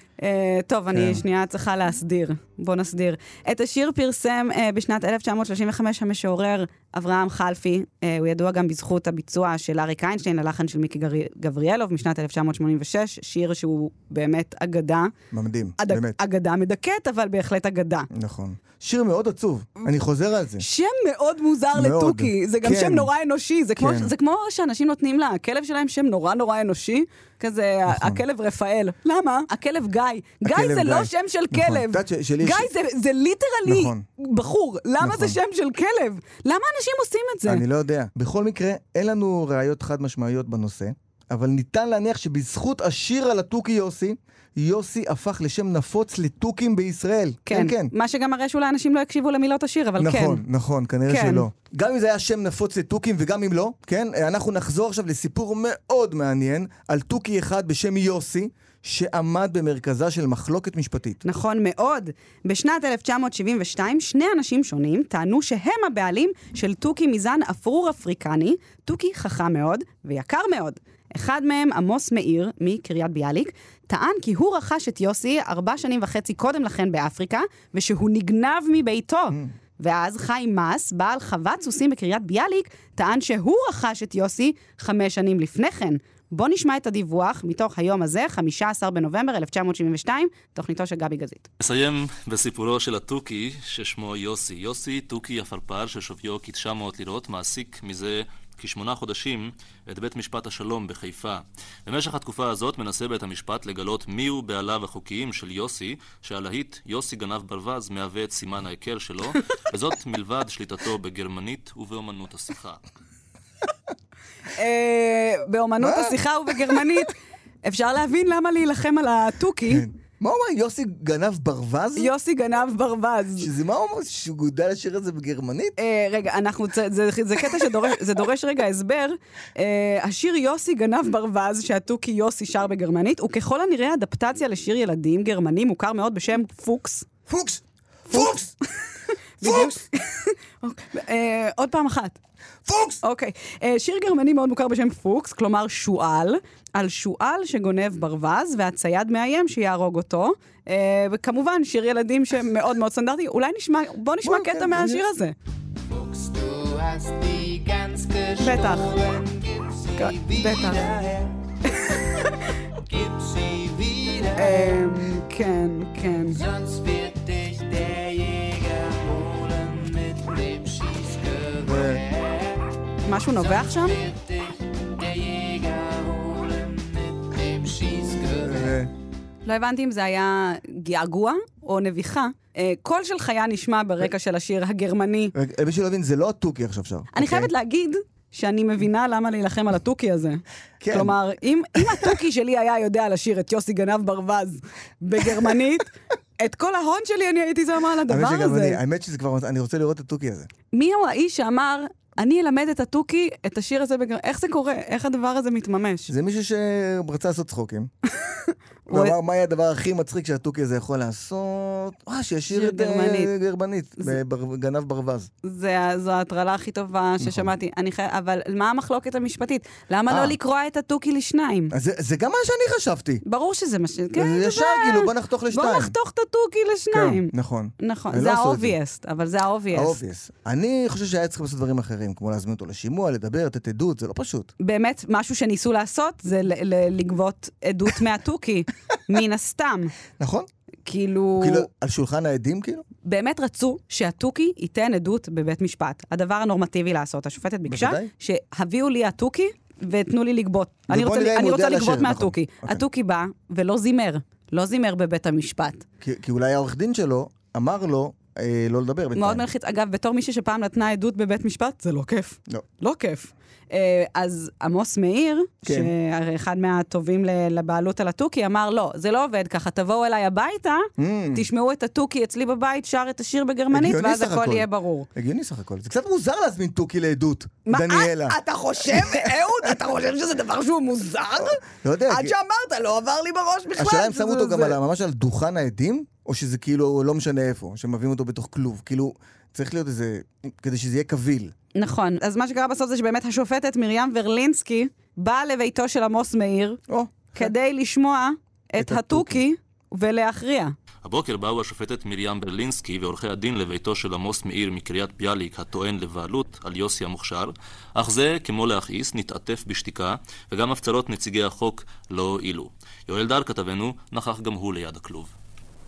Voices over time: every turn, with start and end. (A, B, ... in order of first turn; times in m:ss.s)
0:00.2-0:15.1 A
0:00.9-0:01.2 B
0:15.3-0:16.2 B
0:15.8-0:18.1 A
0:18.1-0:20.6 B
0:20.6-0:37.6 A
0:21.7-0:23.1 B
0:23.8-0:24.1 B
0:27.9-0:28.2 B
0:30.4-0:32.7 B
0:33.6-0:34.0 B
0:35.0-0:35.4 B
0:37.4-0:47.9 B
0:47.5-0:50.4 A
0:50.0-1:01.2 B
0:51.1-0:51.4 A
1:01.2-1:31.4 A
1:31.6-1:52.8 C
1:54.5-1:59.8 A
1:55.8-1:56.2 B
1:59.7-2:02.1 B
2:02.0-2:03.5 A
2:03.4-2:05.7 B
2:05.8-2:17.1 A
2:17.3-2:18.5 B
2:18.1-2:18.4 A
2:19.4-2:22.2 A
2:19.4-2:19.8 B
2:22.6-2:23.0 B
2:23.0-2:35.3 A
2:34.2-2:35.0 B
2:35.9-2:41.3 D
2:38.4-2:39.0 A
2:40.0-2:40.9 A
2:41.9-2:42.3 A
2:42.8-2:44.8 D
2:44.4-2:46.4 A
2:46.3-2:52.6 D
2:51.6-2:52.0 B
2:53.1-2:54.0 A
2:53.4-2:58.8 D
2:58.4-2:58.9 B
2:59.4-3:05.3 A
3:05.3-3:07.5 B
3:07.1-3:18.8 A
3:10.8-3:11.1 B
3:18.1-3:20.5 B
3:20.7-3:26.1 A
3:26.1-3:27.9 B
3:28.9-3:29.2 A
3:28.9-3:35.3 B
3:32.5-3:33.3 A
3:35.4-3:41.7 A
3:37.2-3:37.5 B
3:40.1-3:40.3 B
3:41.7-3:43.2 B
3:43.2-3:50.0 A
3:44.1-3:45.9 B
3:46.9-3:48.7 B
3:49.7-3:54.5 B
3:54.6-3:59.9 A
4:00.2-4:00.5 B
4:00.8-4:01.6 A
4:01.4-4:02.8 B
4:03.0-4:15.8 A
4:07.7-4:08.1 B
4:10.9-4:12.8 B
4:16.0-4:19.4 B
4:19.2-4:35.1 A
4:25.6-4:25.9 B
4:31.0-4:31.4 B
4:33.7-4:38.4 B
4:37.7-4:44.8 A
4:38.9-4:39.2 B
4:41.4-4:42.3 B
4:43.8-4:51.5 B
4:51.8-4:56.8 A
4:56.9-4:57.5 B
4:57.3-5:00.7 A
4:58.8-4:59.4 B
5:01.0-5:15.3 C